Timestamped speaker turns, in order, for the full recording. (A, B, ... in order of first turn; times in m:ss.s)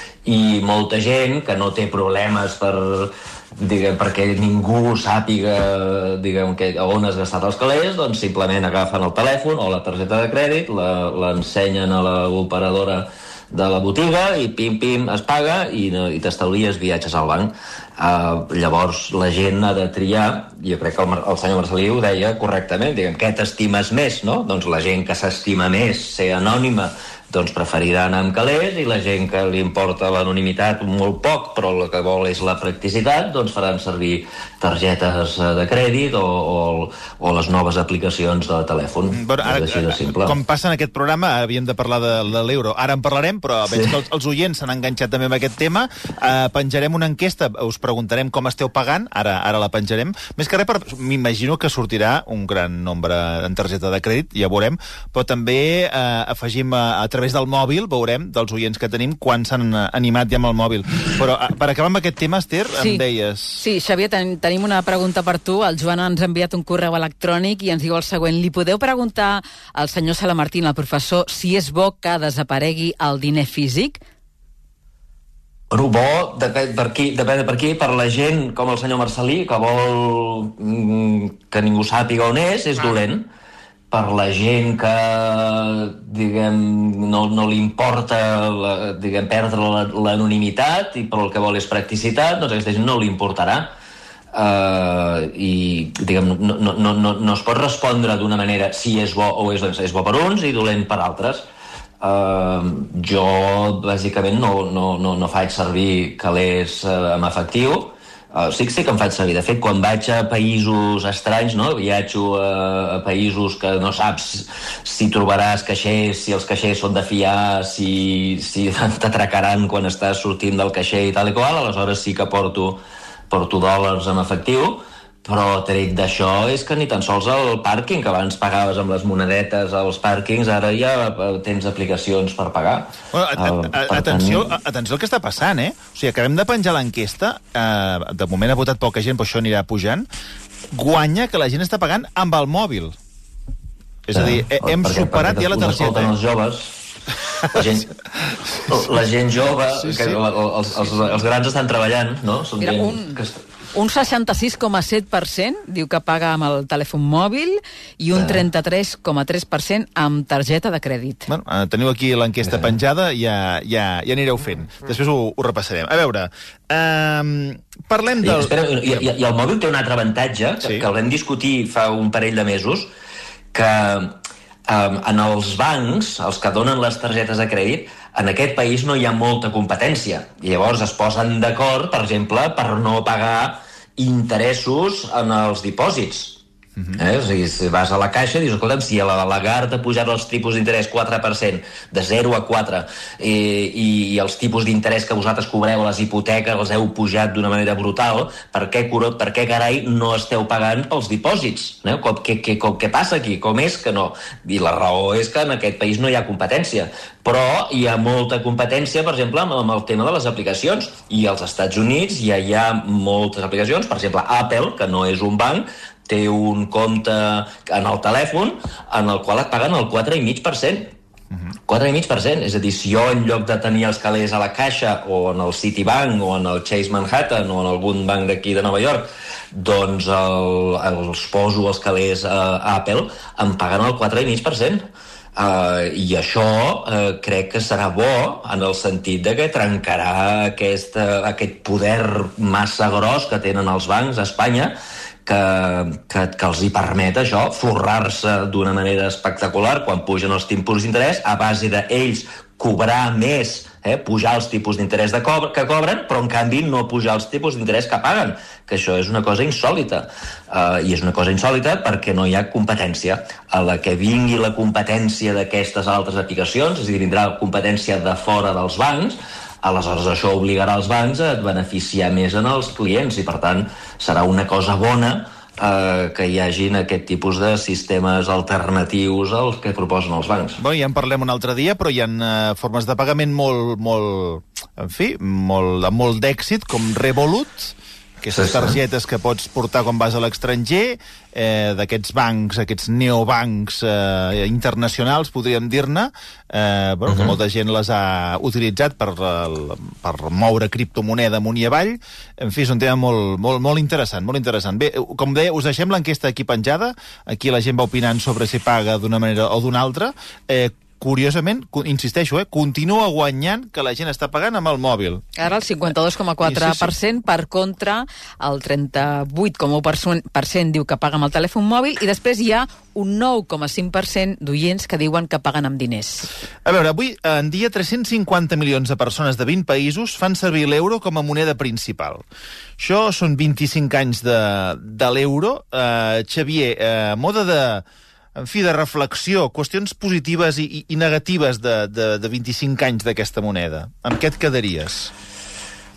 0:00.2-0:40.4 A
0:39.1-1:03.6 B
0:43.7-0:44.0 A
1:02.7-1:03.0 C
1:03.6-1:14.0 C
1:15.7-1:23.3 A
1:23.9-1:33.7 A
1:34.3-1:41.4 A
1:42.0-2:14.5 A
2:13.1-2:20.0 B
2:20.7-2:23.0 B
2:24.0-2:26.1 B
2:24.1-2:26.8 A
2:27.4-2:27.9 A
2:28.6-2:33.4 A
2:29.8-2:30.2 B
2:32.6-2:33.2 C
2:33.7-2:41.3 C
2:38.1-2:38.5 A
2:41.3-2:48.5 B
2:42.4-2:42.7 A
2:48.2-2:52.9 A
2:53.5-2:54.2 A
2:54.7-3:06.4 A
3:07.0-3:40.9 A
3:41.7-4:40.6 A
4:40.6-5:15.2 B
4:48.3-4:48.8 A
4:57.1-4:57.4 A
5:15.4-5:26.3 C
5:16.4-5:16.9 B
5:26.6-5:32.2 B
5:32.8-5:37.8 B
5:38.4-5:45.1 B